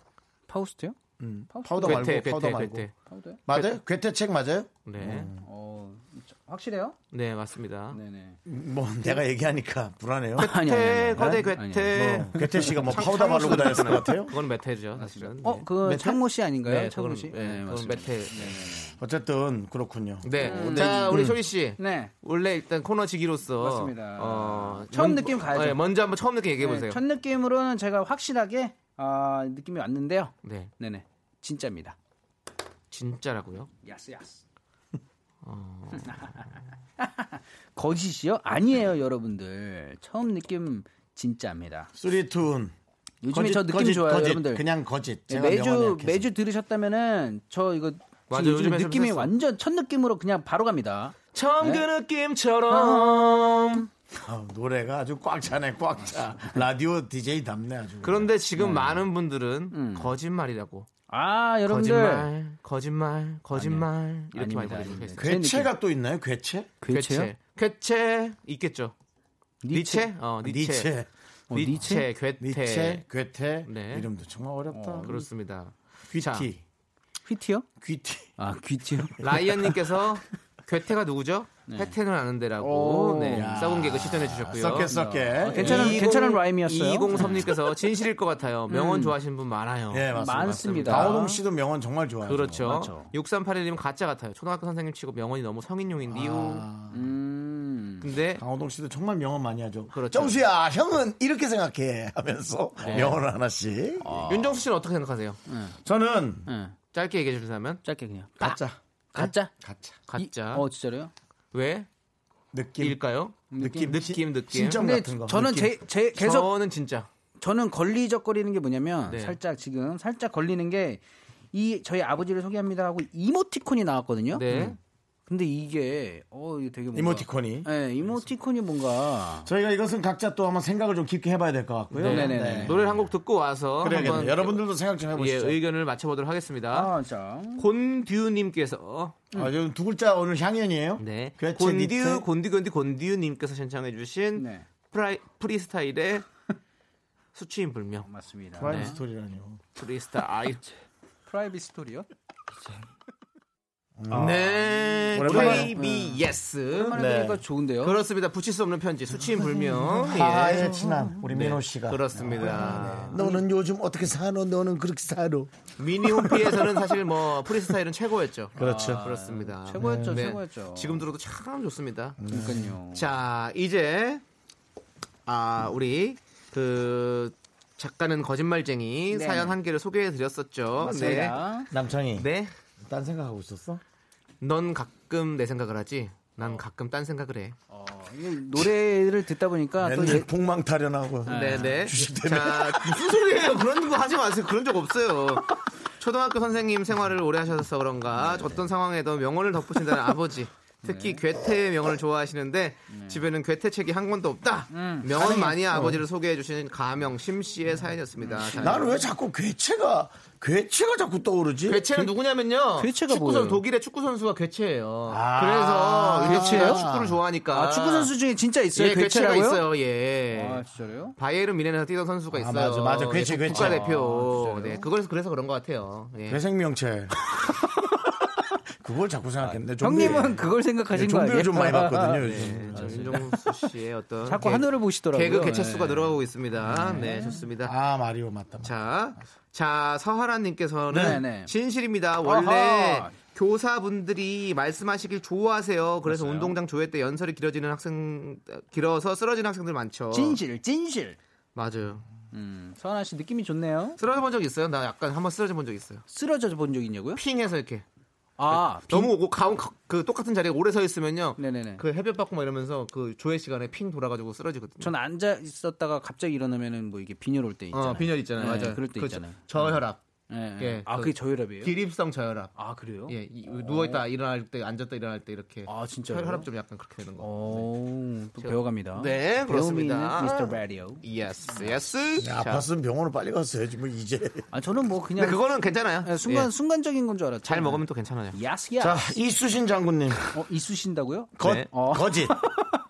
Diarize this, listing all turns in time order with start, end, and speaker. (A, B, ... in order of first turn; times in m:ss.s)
0:00.5-0:01.0 A
0:01.2-0:02.9 B
0:01.5-0:02.1 A
0:01.8-0:02.9 C
0:03.0-0:03.4 A
0:03.5-0:05.4 B
0:04.8-0:05.3 C
0:05.4-0:07.0 A
0:07.1-0:08.0 C
0:07.9-0:08.4 A
0:08.4-0:10.5 B
0:10.4-0:15.7 C
0:10.4-0:13.5 A
0:11.2-0:11.4 B
0:11.9-0:14.3 B
0:15.0-0:19.0 A
0:15.8-0:16.2 B
0:16.6-0:18.7 C
0:19.0-0:21.4 B
0:20.2-0:27.0 C
0:20.4-0:22.1 A
0:23.6-0:25.8 A
0:26.6-0:32.0 A
0:30.4-0:30.7 C
0:32.9-0:33.7 C
0:33.8-0:34.4 A
0:35.4-0:36.3 C
0:36.0-0:36.4 A
0:37.0-0:41.9 A
0:41.9-0:42.7 B
0:43.2-0:44.7 A
0:43.3-0:46.3 B
0:45.3-0:51.8 A
0:48.3-0:49.3 C
0:51.3-0:53.8 C
0:52.7-0:53.8 A
0:54.2-0:58.3 B
0:58.0-1:00.9 C
0:58.6-0:59.0 A
0:59.7-1:00.1 A
1:01.1-1:02.3 A
1:01.6-1:05.3 C
1:03.5-1:05.7 A
1:05.2-1:06.8 B
1:06.8-1:07.3 A
1:06.9-1:08.9 C
1:09.6-1:10.1 A
1:09.7-1:10.9 C
1:10.4-1:11.1 B
1:11.5-1:12.1 A
1:11.5-1:13.0 C
1:12.4-1:15.1 B
1:13.7-1:14.1 C
1:14.7-1:15.2 A
1:15.0-1:16.5 C
1:16.1-1:16.6 B
1:17.2-1:17.6 A
1:17.8-1:18.3 B
1:18.4-1:19.2 A
1:19.2-1:24.9 C
1:21.7-1:21.9 A
1:22.6-1:23.6 A
1:23.3-1:26.0 B
1:24.9-1:27.6 A
1:25.5-1:31.3 C
1:28.7-1:29.1 A
1:29.9-1:32.6 B
1:30.1-1:31.4 A
1:32.2-1:36.7 C
1:32.6-1:33.1 A
1:36.1-1:37.0 B
1:36.9-1:38.1 A
1:38.0-1:38.4 C
1:38.4-1:44.2 B
1:39.9-1:40.4 C
1:42.8-1:43.2 A
1:42.8-1:43.2 C
1:44.0-1:44.6 A
1:44.3-1:45.4 C
1:45.5-1:45.8 A
1:45.8-1:46.5 B
1:46.4-1:46.8 A
1:46.9-1:47.8 C
1:47.8-1:48.6 A
1:48.4-1:50.0 B
1:49.1-1:49.5 A
1:50.1-1:50.7 C
1:50.2-1:51.1 A
1:51.5-1:51.9 C
1:52.5-1:53.0 B
1:52.8-1:54.8 C
1:53.5-1:54.0 A
1:53.6-1:55.8 B
1:54.7-1:56.5 A
1:56.1-1:57.1 C
1:57.4-2:01.0 A
1:59.1-1:59.4 C
2:01.5-2:04.4 A
2:04.3-2:04.8 C
2:05.3-2:09.5 A
2:06.9-2:07.7 B
2:09.4-2:12.9 B
2:12.0-2:12.8 A
2:12.0-2:14.6 C
2:13.8-2:15.6 B
2:13.9-2:14.2 A
2:15.1-2:16.9 C
2:16.7-2:17.7 A
2:17.6-2:19.2 C
2:19.3-2:22.2 B
2:21.0-2:26.3 C
2:24.3-2:24.6 A
2:27.3-2:28.1 C
2:28.0-2:29.0 A
2:28.6-2:29.6 B
2:28.6-2:28.9 C
2:29.8-2:30.6 C
2:31.2-2:32.1 A
2:34.0-2:34.5 B
2:34.1-2:37.0 C
2:35.1-2:35.8 B
2:35.2-2:36.2 A
2:36.7-2:38.0 A
2:36.9-2:37.4 B
2:37.8-2:43.2 C
2:39.9-2:45.5 B
2:42.1-2:43.4 A
2:45.8-2:52.2 C
2:46.0-2:46.6 B
2:48.6-2:49.1 B
2:48.6-2:51.0 A
2:49.8-2:50.2 B
2:52.2-2:52.8 B
2:52.3-2:53.0 A
2:52.9-2:54.2 C
2:55.2-3:01.4 C
2:59.1-2:59.6 A
3:00.8-3:01.7 A
3:01.7-3:02.3 B
3:02.2-3:02.5 C
3:02.8-3:03.8 B
3:04.4-3:07.6 C
3:07.7-3:10.3 A
3:09.8-3:13.2 B
3:11.3-3:11.9 A
3:11.3-3:28.9 C
3:18.2-3:18.7 A
3:20.8-3:21.2 A
3:22.9-3:23.2 A
3:24.7-3:25.9 A
3:25.7-3:26.0 B
3:28.2-3:29.0 A
3:28.6-3:32.1 B
3:31.7-3:38.1 C
3:32.8-3:33.6 A
3:35.1-3:37.2 B
3:36.2-3:36.8 A
3:37.5-3:39.6 A
3:38.7-3:40.6 C
3:40.3-3:41.1 A
3:41.2-3:46.4 C
3:42.3-3:43.8 B
3:43.4-3:44.9 A
3:46.3-3:47.1 B
3:48.8-3:53.2 B
3:49.4-3:53.7 A
3:52.2-3:57.7 C
3:54.2-3:57.4 A
3:57.6-3:58.7 B
3:58.6-4:10.4 C
4:00.9-4:01.2 B
4:00.9-4:01.5 A
4:02.2-4:03.1 A
4:06.1-4:06.6 A
4:10.1-4:11.2 A
4:11.5-4:12.0 C
4:12.3-4:14.0 A
4:14.0-4:16.0 C
4:16.1-4:17.2 A
4:17.1-4:17.8 C
4:18.4-4:19.1 A
4:18.5-4:24.9 C
4:21.4-4:21.8 A
4:24.8-4:29.7 A
4:27.7-4:30.0 C
4:30.3-4:31.8 A
4:30.6-4:37.7 C
4:32.6-4:34.0 A
4:35.6-4:36.5 A
4:37.2-4:41.7 A
4:38.4-4:42.6 C
4:42.2-4:44.5 B
4:44.5-4:49.1 A
4:45.2-4:46.5 C
4:47.4-4:48.4 C
4:48.8-4:50.3 B
4:50.3-4:52.8 A
4:51.4-4:52.4 B
4:51.4-4:51.7 C